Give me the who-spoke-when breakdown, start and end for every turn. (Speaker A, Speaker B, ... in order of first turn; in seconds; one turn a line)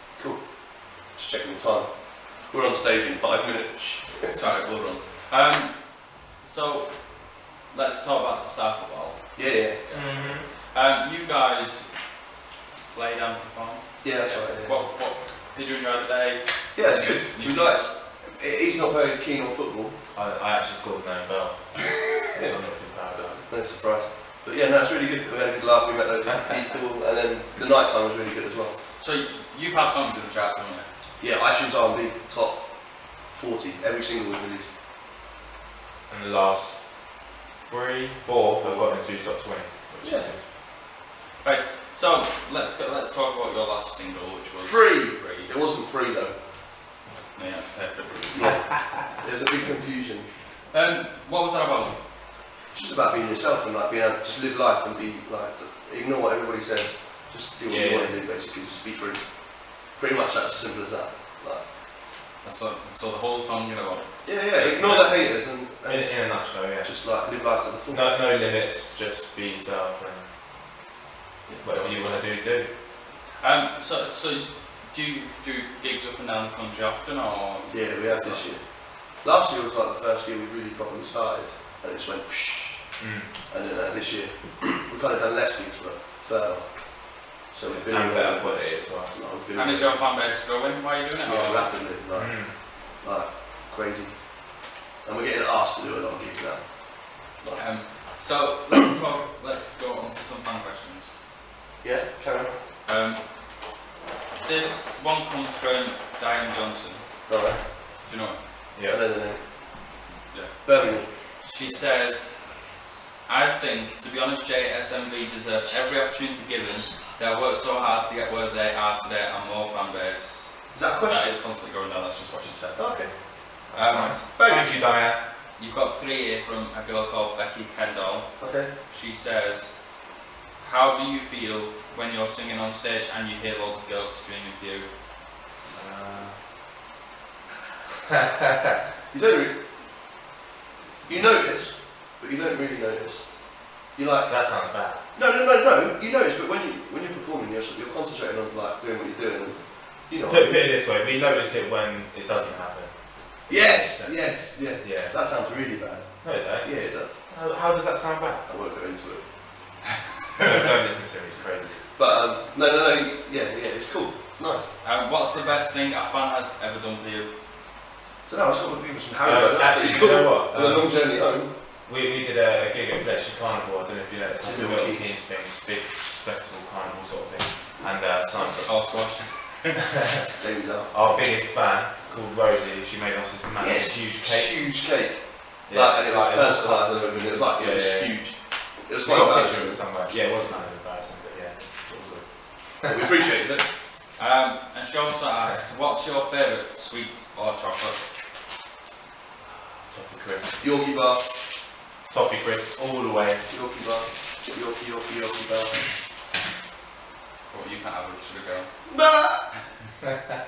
Speaker A: 0.2-4.3
Speaker B: 4.3-12.3
Speaker A: 9.4-9.8
Speaker C: 9.9-10.5
Speaker B: 12.9-17.8
Speaker A: 14.0-14.9
Speaker A: 16.7-20.0
Speaker C: 20.1-23.5
Speaker A: 22.4-28.8
Speaker B: 29.0-30.9
Speaker A: 31.2-34.7
Speaker C: 36.1-40.5
Speaker A: 38.6-39.1
Speaker A: 40.0-40.3
Speaker B: 41.4-45.5
Speaker A: 44.6-46.5
Speaker B: 47.3-48.7
Speaker A: 48.3-50.3
Speaker B: 50.5-52.1
Speaker A: 52.7-61.7
Speaker C: 57.7-58.2
Speaker B: 62.4-65.3
Speaker A: 64.2-68.1
Speaker C: 65.8-70.7
Speaker C: 71.6-72.7
Speaker B: 71.7-72.2
Speaker B: 73.4-78.5
Speaker A: 77.7-90.2
Speaker C: 83.0-83.3
Speaker C: 87.6-89.2
Speaker B: 89.5-91.8
Speaker A: 91.2-98.0
Speaker C: 92.1-92.6
Speaker B: 97.5-101.1
Speaker A: 101.8-102.6
Speaker B: 102.8-103.8
Speaker B: 104.4-108.4
Speaker A: 107.3-107.8
Speaker C: 108.7-109.0
Speaker A: 108.9-109.8
Speaker B: 110.3-124.2
Speaker A: 110.6-111.2
Speaker A: 120.7-121.4
Speaker A: 122.8-123.4
Speaker C: 123.7-125.2
Speaker A: 124.3-124.8
Speaker B: 125.5-134.9
Speaker A: 128.4-128.7
Speaker C: 135.7-136.4
Speaker A: 139.1-139.9
Speaker A: 141.1-150.6
Speaker C: 144.3-145.1
Speaker C: 150.3-155.5
Speaker A: 153.5-157.2
Speaker C: 156.2-158.5
Speaker A: 158.5-159.3
Speaker C: 160.4-161.9
Speaker A: 161.9-164.7
Speaker B: 164.8-167.3
Speaker A: 168.3-171.5
Speaker C: 169.2-179.0
Speaker A: 174.4-175.1
Speaker B: 178.3-179.8
Speaker A: 180.4-181.1
Speaker C: 180.9-185.0
Speaker A: 183.6-189.8
Speaker C: 185.7-193.0
Speaker A: 192.8-193.7
Speaker B: 194.2-198.1
Speaker C: 199.9-200.8
Speaker A: 200.6-201.4
Speaker C: 202.1-203.5
Speaker A: 203.5-205.9
Speaker B: 207.5-209.0
Speaker A: 208.9-209.5